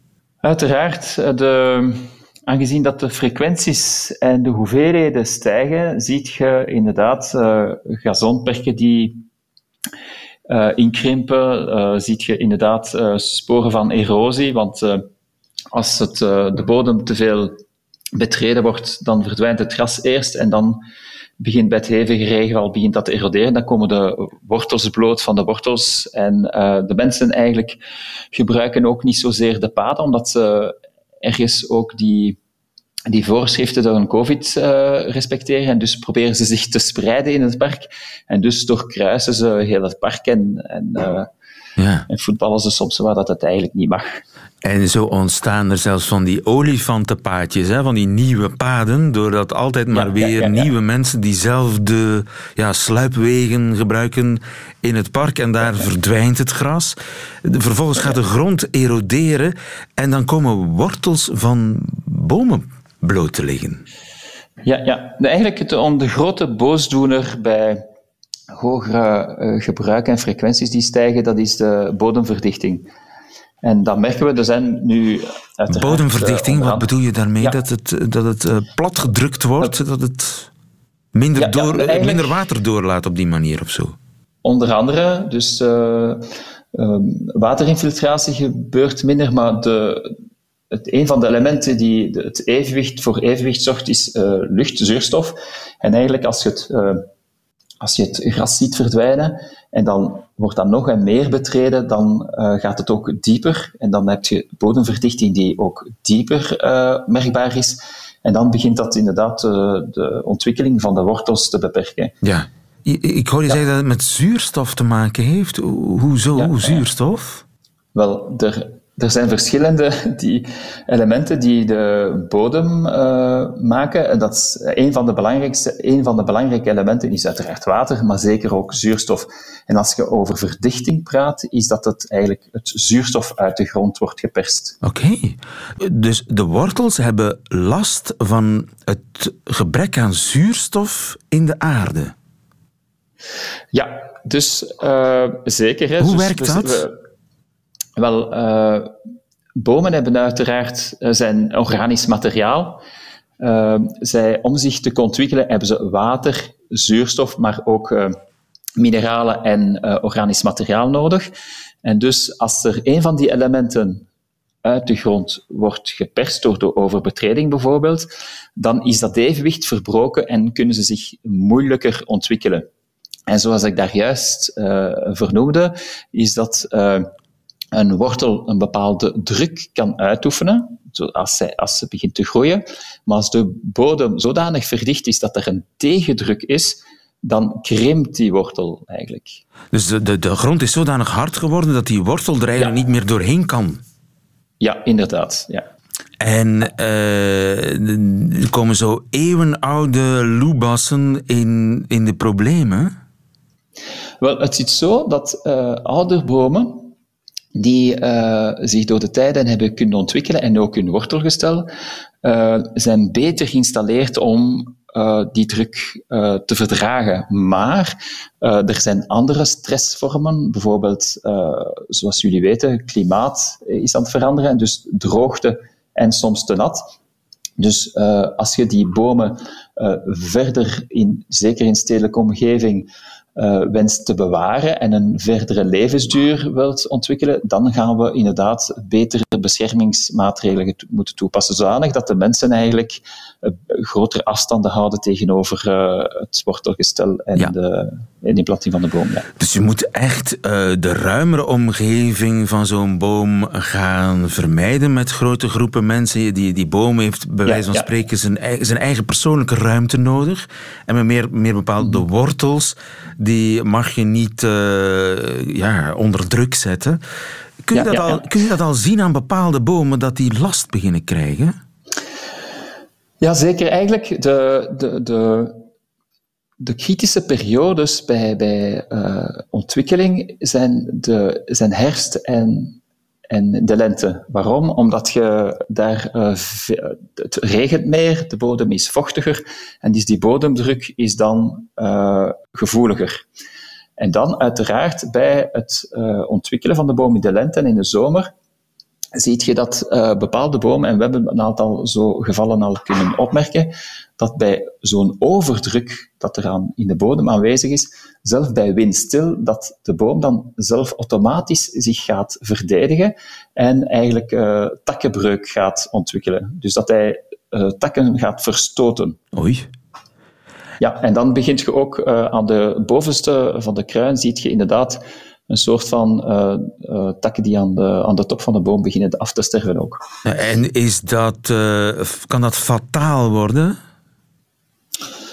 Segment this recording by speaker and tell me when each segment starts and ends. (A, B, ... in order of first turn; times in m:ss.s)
0:00.4-0:09.2 A
0:10.5-0:15.1 A
0:15.7-0:17.6 A
0:18.1-0:20.8 A
0:21.4-0:27.8 A
0:28.3-0:32.4 A
0:33.1-0:41.3 A
0:41.8-0:42.1 B
0:42.1-0:44.2 A
0:44.6-1:03.8 B
0:49.9-0:50.7 A
1:04.6-1:07.8 A
1:08.5-1:12.9 A
1:13.6-1:16.9 A
1:15.7-1:20.5 B
1:21.1-1:24.0 B
1:21.4-1:22.4 A
1:24.4-1:30.1 A
1:30.7-1:37.1 A
1:37.8-1:52.1 A
1:52.2-1:57.4 B
1:56.4-1:56.8 A
1:58.0-2:14.8 A
2:14.8-2:22.1 B
2:23.7-2:26.9 A
2:26.0-2:26.9 B
2:28.0-2:28.9 A
2:29.6-2:32.8 A
2:33.4-2:38.2 A
2:38.8-2:41.3 A
2:41.8-2:44.1 A
2:44.6-2:52.7 A
2:53.3-2:57.1 A
2:57.7-3:09.4 A
3:09.7-3:13.8 B
3:14.6-3:15.7 A
3:16.2-3:22.9 B
3:24.2-3:26.9 A
3:27.6-3:31.7 A
3:32.2-3:46.9 A
3:47.6-4:09.3 A
4:09.4-4:27.0 B
4:17.5-4:17.8 A
4:27.6-4:31.6 B
4:27.7-4:28.2 A
4:33.2-4:35.6 A
4:36.6-4:42.8 A
4:43.3-4:53.2 A
4:54.0-4:58.3 A
4:59.1-5:19.2 A
5:19.3-5:19.7 B
5:20.8-5:30.0 A
5:30.2-5:33.8 B